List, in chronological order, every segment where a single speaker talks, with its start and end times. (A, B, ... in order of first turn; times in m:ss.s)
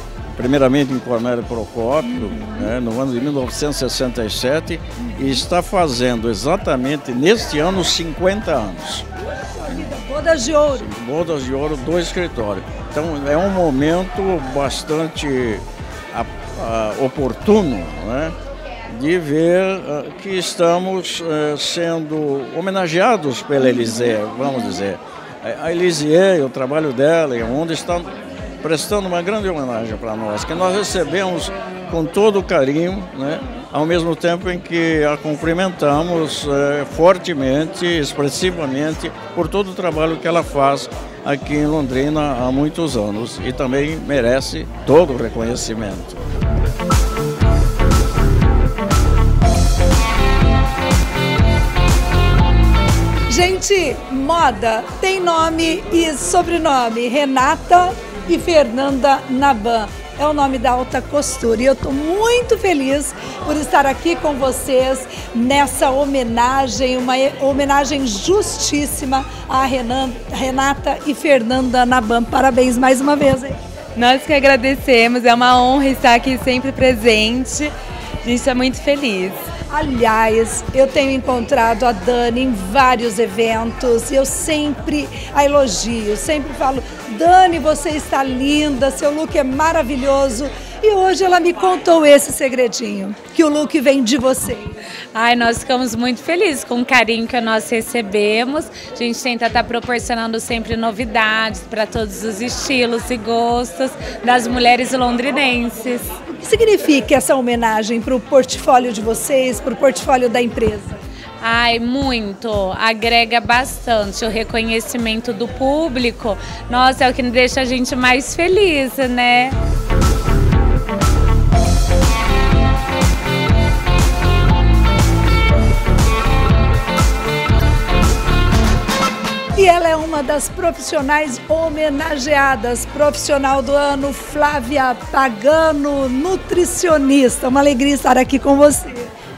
0:00.4-0:09.0 A
0:02.1-0:02.7 B
0:05.0-0:05.4 B
0:09.6-0:10.9 B
0:10.8-0:18.4 A
0:18.9-0:46.2 A
0:53.3-1:13.6 B
1:14.0-1:15.5 C
1:16.8-1:17.7 C
1:18.2-1:19.4 C
1:19.7-1:34.8 B
1:35.2-1:46.1 C
1:46.4-1:51.0 B
1:51.4-1:59.6 C
2:09.6-2:19.1 B